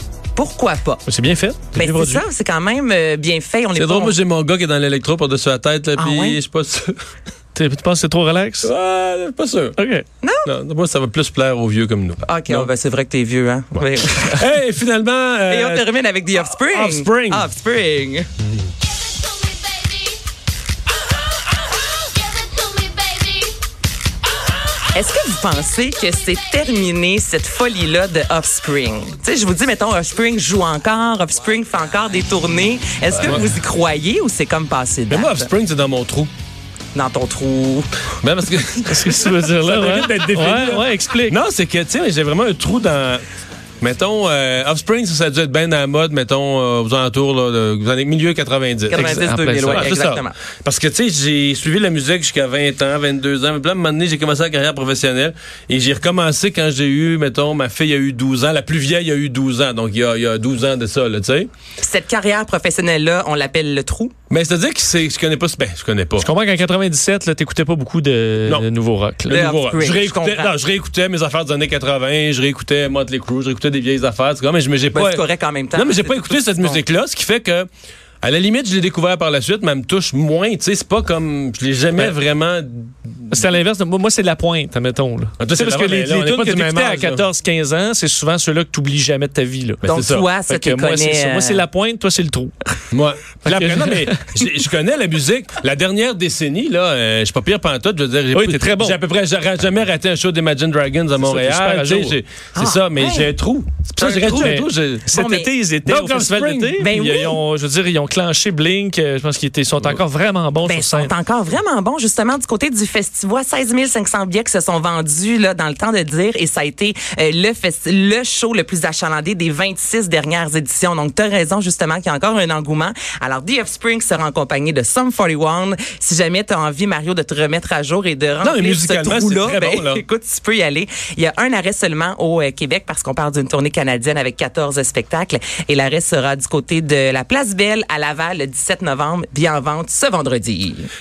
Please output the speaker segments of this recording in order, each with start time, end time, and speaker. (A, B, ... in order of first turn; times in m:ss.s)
0:00.4-0:01.0 A
0:01.1-0:02.2 B
0:01.8-0:04.2 A
0:03.8-0:07.0 C
0:06.0-0:06.4 A
0:07.6-0:08.7 B
0:08.6-0:09.8 C
0:09.8-0:10.1 B
0:10.2-0:10.5 A
0:10.4-0:12.7 C
0:12.2-0:14.4 A
0:14.3-0:15.9 C
0:15.5-0:18.3 A
0:16.6-0:17.4 C
0:24.9-0:35.5 A
0:35.1-0:36.3 C
0:36.9-0:37.9 A
0:38.2-0:43.2 C
0:38.9-0:41.4 B
0:43.8-1:01.5 C
0:48.9-0:50.4 A
0:49.0-0:49.8 B
1:01.8-1:04.1 A
1:04.3-1:06.3 C
1:06.2-1:09.4 B
1:09.3-1:17.7 C
1:09.3-1:10.5 A
1:14.9-1:16.8 A
1:18.2-1:23.5 C
1:23.3-1:29.9 B
1:25.4-1:27.2 C
1:29.8-1:30.3 C
1:29.9-1:31.7 A
1:30.4-1:32.5 B
1:32.9-1:45.1 C
1:33.5-1:34.3 B
1:38.3-1:39.0 B
1:41.2-1:42.2 B
1:42.5-1:43.3 A
1:44.0-1:45.5 A
1:44.3-1:51.1 B
1:45.9-1:47.3 C
1:46.8-1:47.4 A
1:50.6-2:20.9 A
2:08.4-2:10.0 C